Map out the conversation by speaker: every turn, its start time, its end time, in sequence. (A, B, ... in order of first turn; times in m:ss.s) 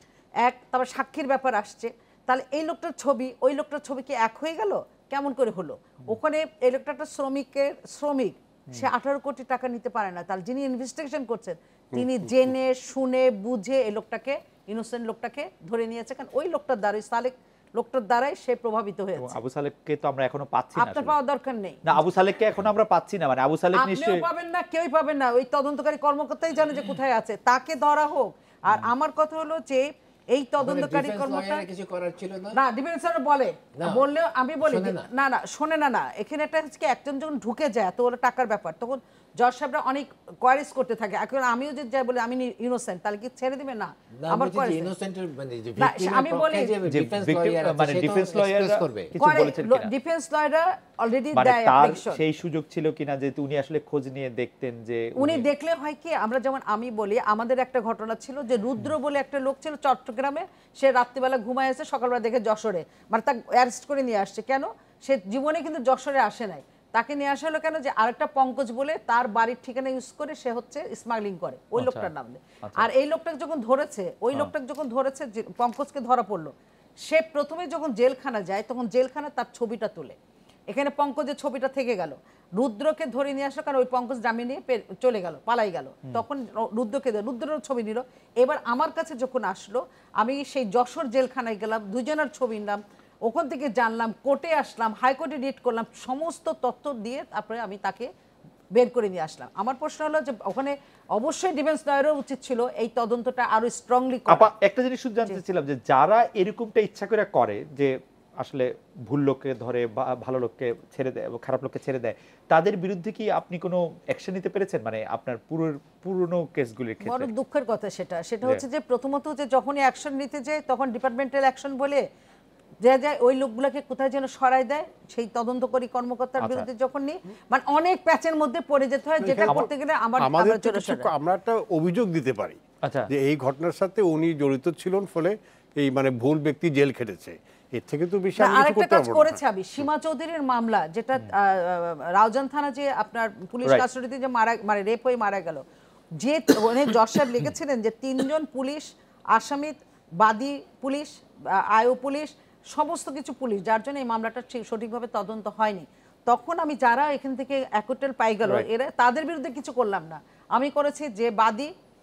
0:00.4-0:19.4 A
0:19.2-0:21.1 B
0:20.8-0:22.0 A
0:21.8-0:24.2 B
0:23.7-0:31.7 A
0:30.6-0:32.6 C
0:32.5-0:44.9 A
0:33.8-0:34.0 C
0:34.6-0:35.1 C
0:44.2-0:49.1 C
0:45.8-0:46.8 A
0:46.9-0:49.9 B
0:49.2-0:52.2 A
0:51.3-0:55.4 B
0:55.2-1:16.5 A
1:11.8-1:12.1 B
1:12.6-1:12.9 B
1:17.1-1:20.2 A
1:20.7-1:38.1 A
1:38.8-1:44.5 A
1:44.3-1:57.3 B
1:57.0-2:02.0 A
2:02.8-2:11.1 A
2:06.4-2:06.7 B
2:09.2-2:19.4 D
2:12.8-2:13.1 B
2:18.4-2:25.6 A
2:26.2-2:41.7 A